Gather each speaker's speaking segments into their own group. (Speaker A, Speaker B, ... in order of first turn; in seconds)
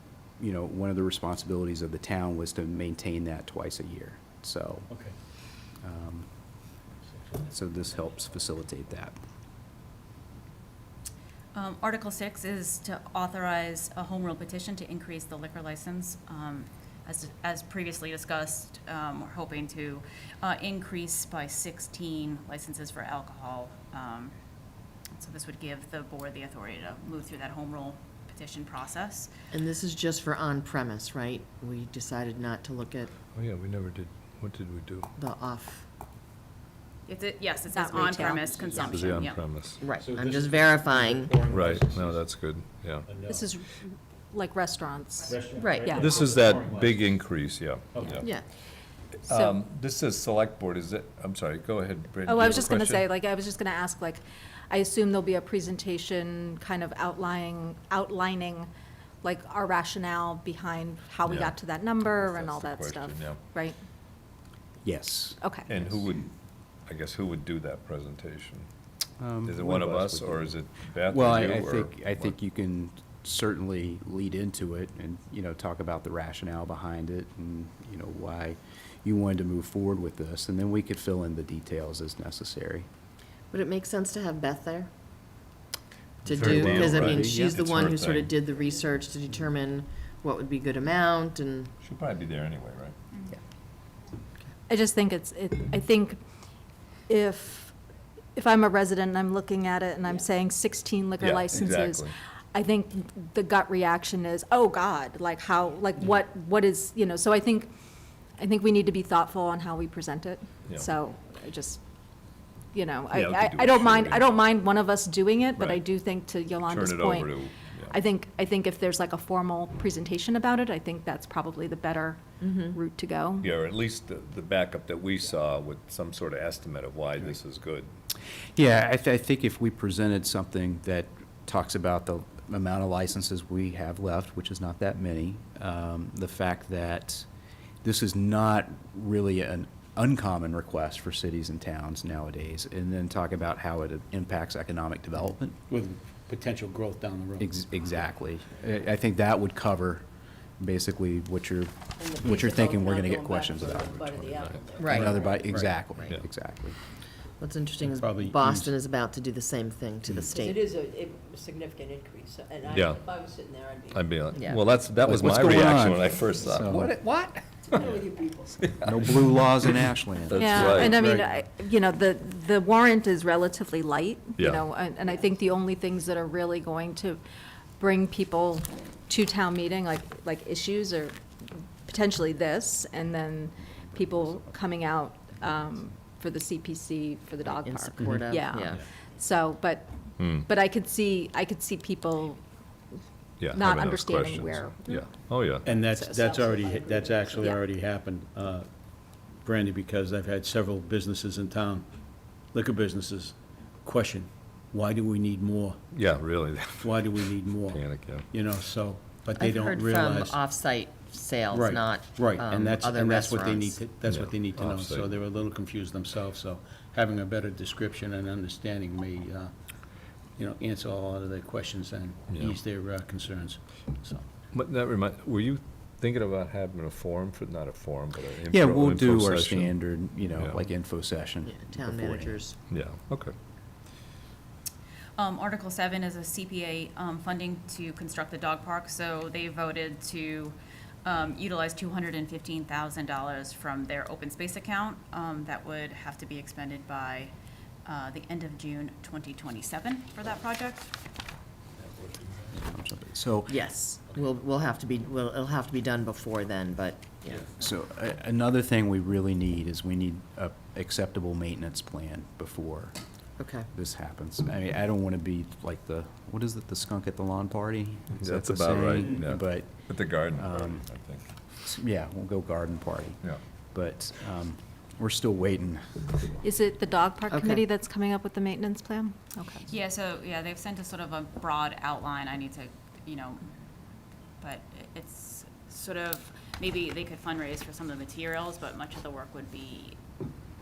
Speaker A: 0.4-4.9, 5.7-6.3, 7.4-9.1, 64.8-65.4, 69.2-70.5, 71.1-82.9, 86.2-87.6, 128.6-137.2, 137.8-145.6, 147.4-150.1, 150.6-156.8, 165.0-166.9, 168.8-171.2, 228.5-232.4, 252.5-253.8, 257.5-270.8, 271.6-273.2, 273.7-276.3
Speaker B: 4.9-5.1, 40.0-42.4, 43.0-43.5, 45.3-47.1, 47.9-48.2, 145.7-147.5, 154.9-155.7, 157.8-158.7, 195.6-198.7, 199.2-201.9, 202.5-205.8, 206.8-210.4, 211.5-219.5, 220.4-224.2, 251.8-252.6
Speaker C: 11.5-24.3, 25.1-29.3, 37.1-39.4, 235.2-247.3, 247.8-250.9, 279.7-283.4, 284.4-290.0
Speaker D: 29.5-33.1, 35.2-35.8, 39.8-41.3, 83.5-84.9, 86.2-91.7, 122.4-122.7, 154.8-155.1, 157.4-160.6, 166.9-167.3, 187.4-188.8, 209.4-213.8, 231.4-232.6, 253.5-257.4, 263.4-263.7, 277.3-277.6
Speaker E: 33.3-35.1, 38.8-39.8, 41.5-43.1, 45.9-48.4, 49.3-53.0, 61.2-63.4, 65.7-66.3, 66.8-68.7, 69.4-72.3, 86.2-88.3, 91.8-92.9, 101.2-102.1, 113.1-114.3, 115.6-115.8, 116.7-117.9, 123.4-127.9, 162.7-163.0, 163.9-167.0, 170.3-171.0, 174.4-174.6, 190.2-190.5, 193.4-195.7, 205.9-208.3, 214.0-215.1, 224.5-230.6, 232.7-233.3, 268.2-271.2
Speaker F: 37.7-39.2, 43.2-46.2, 49.3-49.5, 52.2-58.7, 59.2-63.8, 65.4-65.7, 94.7-96.2, 97.1-97.7, 98.3-107.7, 108.4-111.8, 112.7-117.4, 117.9-123.5, 170.3-177.2, 177.8-181.2, 181.8-192.4, 193.5-195.1, 195.9-196.3, 197.2-197.6, 276.4-279.7
Speaker G: 152.0-155.5, 160.1-164.0, 167.7-168.8, 196.2-197.3